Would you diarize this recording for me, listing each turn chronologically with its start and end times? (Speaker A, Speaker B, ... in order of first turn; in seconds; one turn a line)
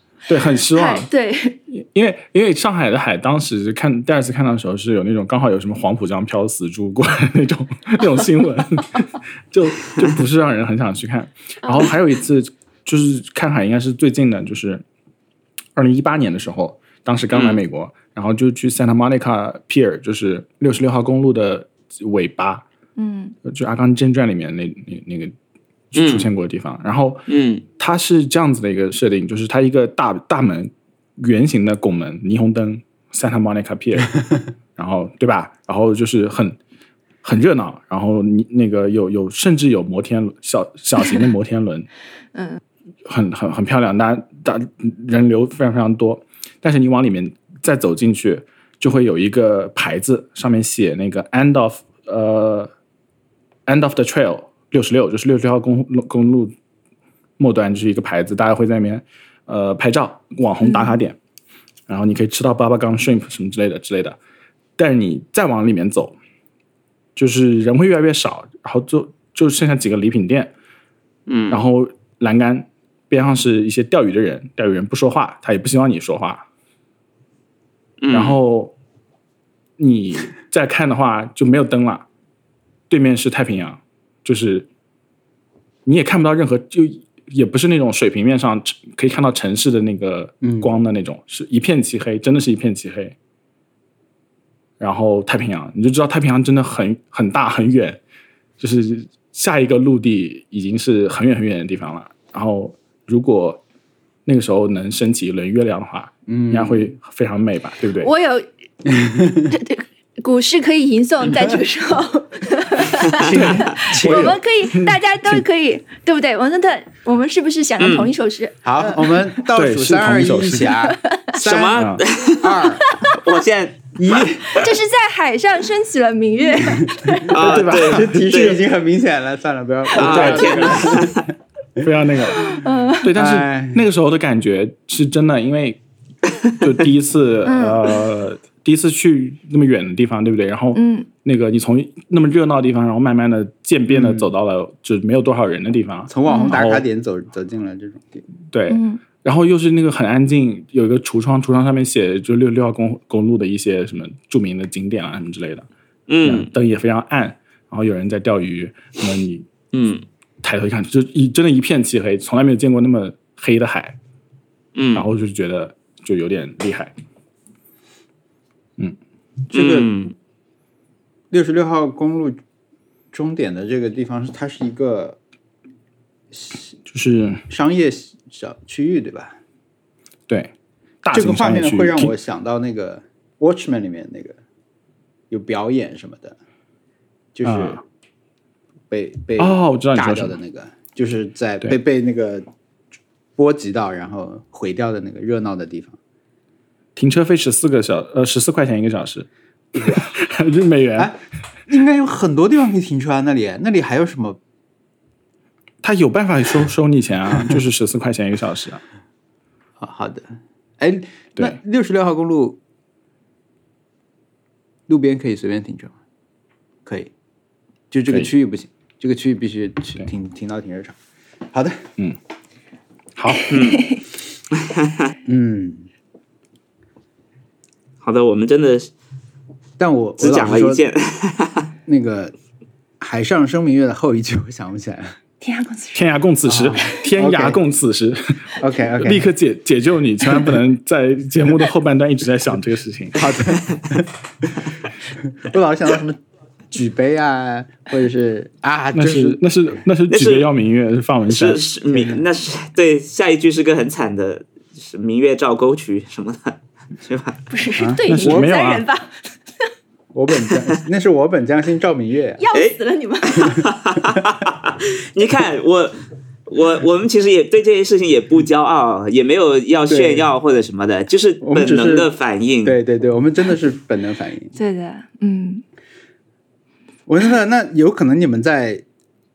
Speaker A: 0.3-1.1
Speaker B: 0.7-1.6
Speaker A: 1.7-14.8
Speaker A: 15.8-22.6
Speaker C: 17.3-17.6
Speaker B: 23.0-23.4
Speaker A: 23.4-25.3
Speaker A: 25.9-27.3
Speaker C: 25.9-26.3
Speaker C: 27.3-27.6
Speaker A: 27.8-34.2
Speaker A: 34.8-36.6
Speaker A: 37.2-41.9
Speaker B: 42.3-42.6
Speaker A: 43.0-52.7
Speaker A: 53.7-56.5
Speaker A: 57.4-61.2
Speaker B: 60.6-61.0
Speaker A: 61.9-64.2
Speaker A: 64.8-66.1
Speaker A: 67.2-70.5
Speaker C: 71.3-71.6
Speaker A: 71.5-76.4
Speaker C: 78.0-78.4
Speaker A: 78.1-78.7
Speaker A: 79.8-82.0
Speaker A: 82.9-84.7
Speaker A: 85.8-93.1
Speaker D: 90.4-90.7
Speaker A: 94.8-98.0
Speaker A: 98.6-103.6
Speaker A: 104.2-108.1
Speaker D: 106.3-106.9
Speaker B: 108.0-108.5
Speaker D: 108.9-109.5
Speaker B: 109.5-119.2
Speaker D: 113.2-114.4
Speaker A: 114.0-115.4
Speaker C: 117.8-118.1
Speaker D: 118.6-122.9
Speaker A: 119.5-120.7
Speaker B: 120.8-121.3
Speaker C: 121.3-124.6
Speaker A: 121.7-122.0
Speaker B: 122.7-123.1
Speaker D: 124.0-124.6
Speaker B: 124.5-127.3
Speaker D: 127.3-131.2
Speaker C: 127.3-128.6
Speaker A: 127.3-128.2
Speaker C: 129.9-131.2
Speaker A: 130.0-130.7
Speaker B: 130.2-130.9
Speaker A: 131.8-135.8
Speaker B: 132.3-133.1
Speaker D: 133.1-133.8
Speaker A: 136.6-146.8
Speaker B: 137.4-137.9
Speaker B: 140.7-141.1
Speaker D: 143.9-144.3
Speaker D: 146.1-148.2
Speaker B: 146.2-146.6
Speaker A: 148.5-155.7
Speaker B: 148.7-149.0
Speaker C: 156.1-156.5
Speaker A: 156.2-159.5
Speaker C: 159.7-160.0
Speaker A: 160.4-163.9
Speaker C: 164.7-165.1
Speaker A: 164.9-166.9
Speaker D: 169.5-169.9
Speaker C: 169.5-170.1
Speaker D: 171.3-172.4
Speaker D: 173.1-175.2
Speaker D: 176.3-176.7
Speaker A: 176.9-177.4
Speaker D: 177.5-179.4
Speaker A: 181.0-182.1
Speaker D: 181.1-184.4
Speaker D: 185.3-186.4
Speaker D: 187.3-187.8
Speaker A: 187.4-187.8
Speaker D: 188.9-192.4
Speaker A: 189.4-190.3
Speaker D: 193.4-196.0
Speaker A: 196.9-199.3
Speaker D: 199.7-200.0
Speaker A: 199.8-201.1
Speaker D: 201.0-204.4
Speaker A: 205.8-208.8
Speaker D: 209.8-212.6
Speaker D: 214.9-215.9
Speaker D: 216.8-217.1
Speaker D: 217.9-220.9
Speaker D: 221.5-221.8
Speaker A: 223.2-223.6
Speaker C: 223.5-223.9
Speaker B: 223.5-224.0
Speaker C: 224.5-225.1
Speaker D: 225.2-225.9
Speaker C: 228.0-228.9
Speaker D: 229.8-230.8
Speaker C: 230.2-231.7
Speaker D: 231.8-232.3
Speaker D: 233.0-235.2
Speaker B: 235.4-236.0
Speaker A: 235.9-243.3
Speaker D: 236.5-237.6
Speaker D: 238.6-239.3
Speaker D: 243.1-244.5
Speaker D: 245.2-246.2
Speaker D: 246.7-249.4
Speaker A: 248.9-251.6
Speaker C: 250.1-250.5
Speaker C: 251.3-257.4
Speaker D: 251.9-252.2
Speaker B: 257.5-259.1
Speaker D: 257.8-258.5
Speaker A: 258.1-258.8
Speaker D: 260.1-262.4
Speaker B: 262.4-263.7
Speaker C: 262.5-272.8
Speaker D: 269.9-270.3
Speaker D: 271.4-272.1
Speaker D: 272.6-274.5
Speaker B: 274.5-275.6
Speaker D: 277.1-278.8